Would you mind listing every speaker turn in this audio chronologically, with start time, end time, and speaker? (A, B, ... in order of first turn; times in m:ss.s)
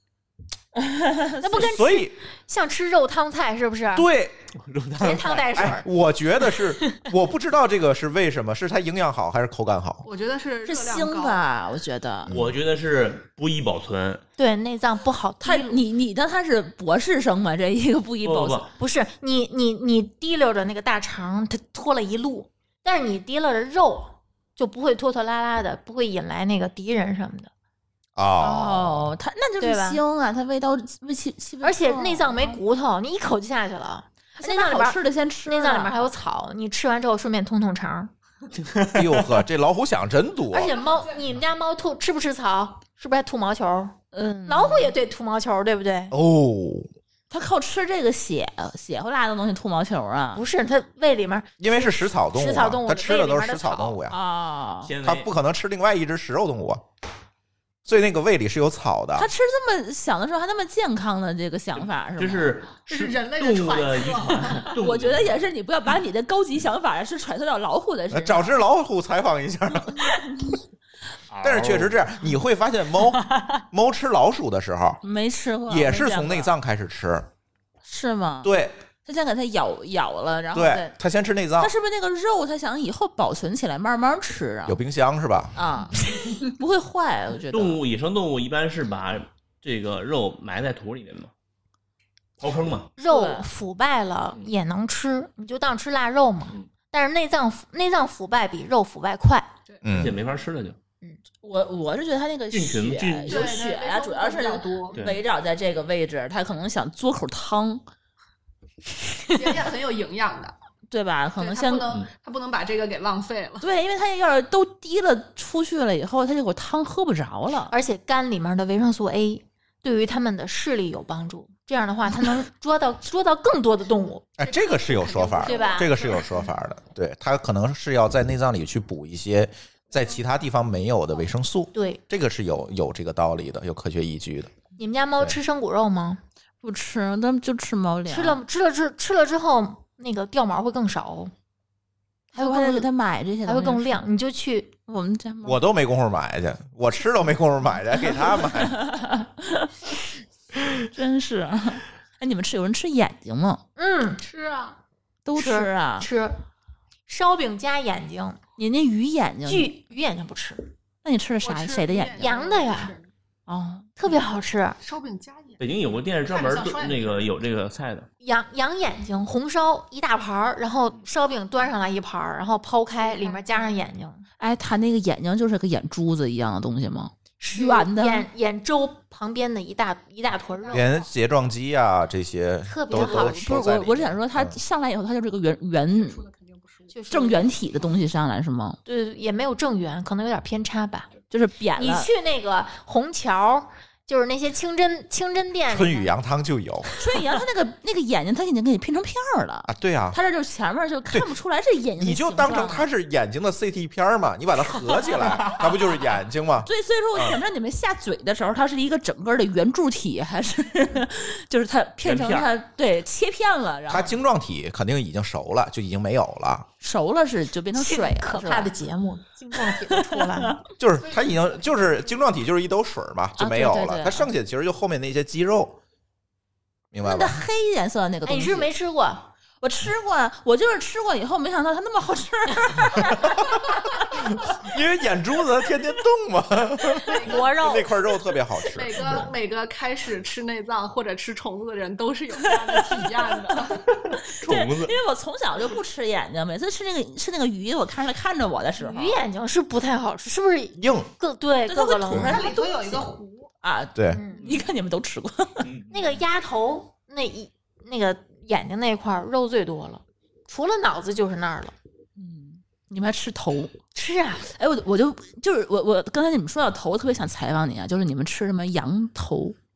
0:00.8-0:01.6 A
0:01.4-0:04.1 B
0:01.5-0:02.2 C
0:03.9-0:04.4 C
0:04.6-0:05.5 D
0:05.0-0:05.8 B
0:05.2-0:10.0 C
0:06.6-0:07.0 B
0:10.0-0:11.4 E
0:10.6-0:12.3 A
0:12.3-0:12.5 C
0:12.3-0:14.2 D
0:14.4-0:15.8 B
0:15.4-0:18.7 A
0:18.2-0:18.7 D
0:18.8-0:27.5 B
0:28.2-0:29.1 C
0:28.4-0:32.6 A
0:29.6-0:30.0 B
0:31.6-0:38.1 B
0:34.4-0:36.1 A
0:38.6-0:39.4 D
0:38.9-0:40.8 C
0:40.5-0:46.1 B
0:44.1-0:44.9 A
0:46.1-0:46.9 C
0:47.3-0:50.4 A
0:50.4-0:51.7 B
0:51.6-0:54.2 C
0:52.3-0:54.0 B
0:54.1-0:54.9 A
0:54.8-0:55.3 D
0:55.0-0:56.8 C
0:57.9-0:59.3 C
0:59.2-1:02.6 A
1:02.2-1:05.3 D
1:02.9-1:04.8 E
1:04.8-1:08.5 A
1:08.1-1:10.2 C
1:10.0-1:10.5 A
1:11.3-1:12.0 D
1:11.4-1:15.0 C
1:13.3-1:13.6 A
1:15.0-1:16.5 A
1:15.7-1:17.3 C
1:17.8-1:18.5 A
1:18.4-1:18.8 C
1:19.0-1:21.0 A
1:20.5-1:21.7 C
1:21.6-1:24.8 A
1:24.7-1:25.6 C
1:25.6-1:27.8 A
1:27.5-1:31.3 D
1:32.4-1:32.9 D
1:33.0-1:39.5 B
1:33.1-1:33.5 A
1:39.7-1:40.0 E
1:39.8-1:40.2 C
1:39.9-1:40.8 D
1:41.4-1:47.8 A
1:42.5-1:43.5 D
1:43.3-1:45.1 E
1:49.3-1:50.6 E
1:50.9-1:52.0 A
1:51.4-1:53.7 E
1:53.6-1:57.7 A
1:57.7-2:04.3 B
2:04.4-2:14.6 C
2:04.4-2:06.3 E
2:05.4-2:06.1 B
2:11.7-2:12.0 B
2:14.8-2:16.2 B
2:16.6-2:18.4 A
2:18.1-2:21.3 B
2:22.3-2:22.9 B
2:22.3-2:24.0 A
2:23.5-2:24.8 B
2:24.9-2:25.6 A
2:25.4-2:28.8 C
2:28.4-2:29.9 A
2:30.6-2:33.6 A
2:33.8-2:34.2 B
2:34.2-2:34.8 E
2:35.2-2:36.1 A
2:35.4-2:36.4 B
2:37.1-2:38.4 B
2:38.6-2:39.7 A
2:39.5-2:40.7 B
2:41.0-2:42.4 A
2:41.4-2:43.1 E
2:42.2-2:43.0 B
2:43.5-2:43.9 A
2:44.0-2:44.8 B
2:44.8-2:45.6 E
2:45.6-2:48.1 D
2:46.3-2:47.2 E
2:48.2-2:54.2 B
2:53.0-2:53.7 E
2:54.4-2:58.3 A
2:57.4-3:01.0 B
3:00.6-3:01.0 E
3:00.7-3:04.6 C
3:02.7-3:03.6 B
3:02.9-3:06.2 A
3:06.0-3:07.0 E
3:06.9-3:07.5 B
3:07.1-3:08.8 A
3:08.9-3:11.1 B
3:11.3-3:12.1 A
3:11.8-3:16.1 B
3:15.7-3:16.9 C
3:17.0-3:22.9 A
3:19.7-3:20.2 C
3:22.0-3:27.4 C
3:25.0-3:25.5 A
3:26.6-3:34.2 A
3:32.0-3:32.5 D
3:33.9-3:36.7 C
3:36.8-3:38.7 A
3:37.8-3:40.6 B
3:39.7-3:40.6 A
3:40.8-3:45.8 C
3:41.0-3:42.2 E
3:43.4-3:44.3 A
3:46.9-3:47.4 C
3:47.0-3:48.7 A
3:48.3-3:49.3 B
3:49.6-3:53.7 A
3:53.0-3:53.3 C
3:54.1-3:59.3 C
3:57.0-3:57.6 E
3:57.2-3:58.0 B
3:58.7-4:04.0 E
4:02.4-4:09.2 A
4:04.3-4:05.0 D
4:08.8-4:12.5 B
4:10.8-4:11.1 C
4:11.7-4:15.7 A
4:12.2-4:13.5 E
4:14.0-4:14.2 C
4:14.1-4:14.5 B
4:15.6-4:16.0 D
4:15.9-4:21.8 B
4:22.2-4:23.7 A
4:23.9-4:24.5 B
4:24.4-4:29.6 A